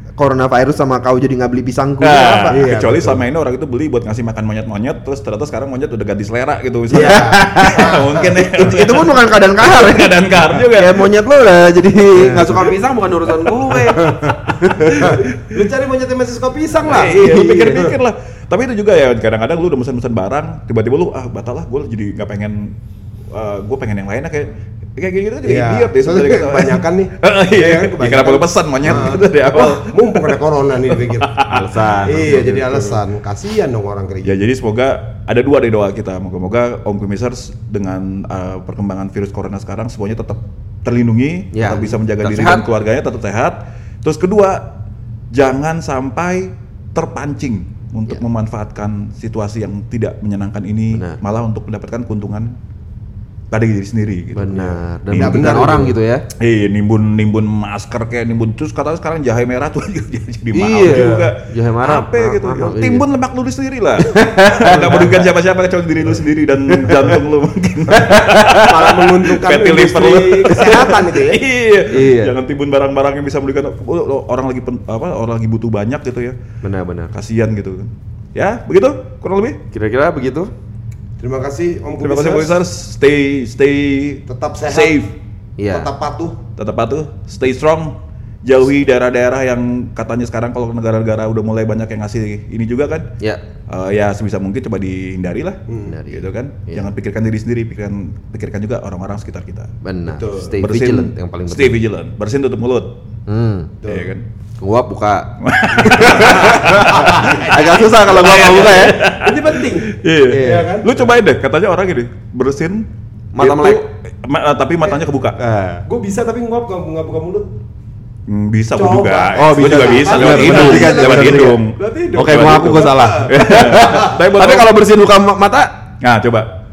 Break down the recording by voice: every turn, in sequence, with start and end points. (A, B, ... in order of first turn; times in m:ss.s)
0:00.2-0:02.8 A
0:02.0-0:11.1 B
0:02.5-0:03.2 C
0:06.9-0:08.4 C
0:06.9-0:15.2 A
0:12.2-0:12.7 C
0:13.7-0:14.4 C
0:14.7-0:15.4 B
0:14.9-0:17.9 C
0:16.9-0:22.7 B
0:16.9-0:17.9 A
0:23.3-0:30.3 B
0:25.4-0:31.3 C
0:30.9-0:32.8 B
0:31.5-0:32.9 A
0:32.1-0:34.4 C
0:34.2-0:44.7 B
0:41.5-0:42.7 A
0:45.3-0:52.5 B
0:53.5-1:16.4 B
0:54.3-0:56.2 A
0:55.1-0:56.0 C
1:00.5-1:03.0 A
1:00.8-1:01.3 C
1:04.0-1:05.3 A
1:06.7-1:07.2 A
1:08.1-1:08.6 A
1:08.5-1:11.4 C
1:11.9-1:12.3 A
1:16.6-1:17.1 A
1:17.1-1:19.6 B
1:19.7-1:20.5 A
1:21.2-1:22.6 C
1:22.0-1:25.1 B
1:24.3-1:25.0 C
1:25.6-1:25.9 A
1:25.7-1:26.4 C
1:26.6-1:33.1 B
1:33.7-1:39.7 B
1:35.7-1:35.9 C
1:35.9-1:36.9 A
1:39.8-1:41.8 A
1:40.1-1:40.6 C
1:40.6-1:42.9 B
1:43.3-1:43.8 A
1:43.8-1:44.1 C
1:43.9-1:44.2 B
1:44.6-1:49.0 A
1:45.4-1:52.9 B
1:46.2-1:47.8 C
1:48.4-1:51.1 C
1:50.3-1:50.7 A
1:53.3-1:53.8 A
1:53.4-1:55.4 B
1:55.4-1:55.8 A
1:55.9-1:57.5 C
1:58.3-2:04.7 B
1:58.8-2:04.1 C
1:59.3-2:01.6 A
2:02.1-2:05.7 A
2:06.0-2:06.5 B